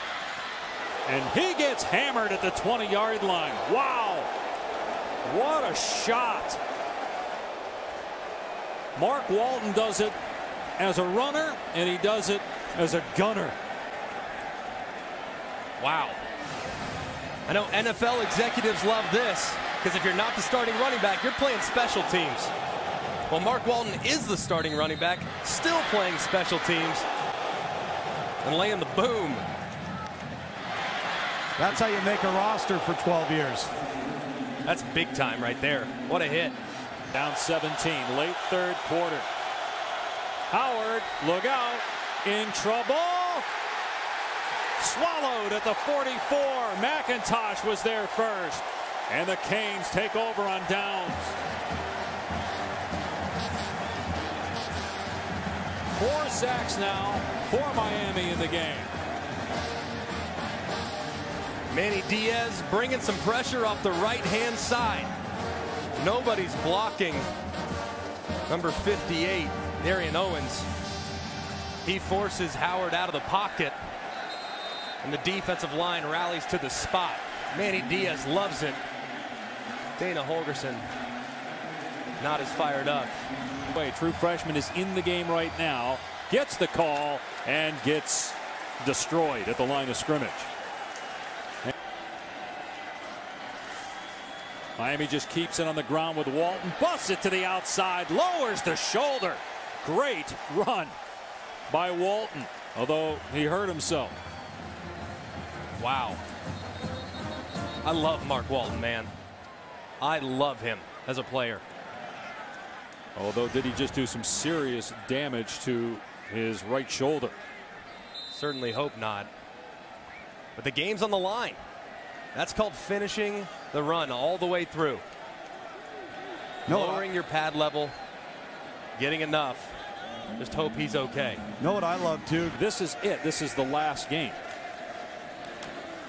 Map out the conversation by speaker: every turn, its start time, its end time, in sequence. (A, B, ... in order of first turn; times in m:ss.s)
0:01.0-0:04.3 A
0:05.2-0:06.6 A
0:09.0-0:10.1 A
0:10.8-0:13.6 A
0:15.8-0:16.2 B
0:17.4-0:22.5 B
0:23.3-0:27.0 B
0:28.4-0:29.4 B
0:31.6-0:33.7 C
0:34.6-0:36.6 B
0:37.1-0:39.3 A
0:40.5-0:43.4 A
0:44.8-0:51.4 A
0:55.9-0:58.9 A
1:01.7-1:05.1 B
1:06.0-1:07.3 B
1:08.5-1:10.7 B
1:11.8-1:13.8 B
1:15.0-1:18.8 B
1:20.0-1:20.9 B
1:22.2-1:23.2 B
1:23.7-1:30.5 A
1:34.8-1:41.0 A
1:41.7-1:44.2 A
1:45.8-1:46.2 B
1:47.8-1:49.1 B
1:50.0-1:51.6 B
1:53.2-1:57.4 A
1:58.3-1:59.3 B
2:00.6-2:01.6 B
2:02.3-2:05.0 B
2:06.7-2:07.0 C
2:06.7-2:08.0 B
2:09.0-2:09.7 B
2:10.4-2:11.4 B
2:11.6-2:12.6 C
2:12.5-2:14.4 A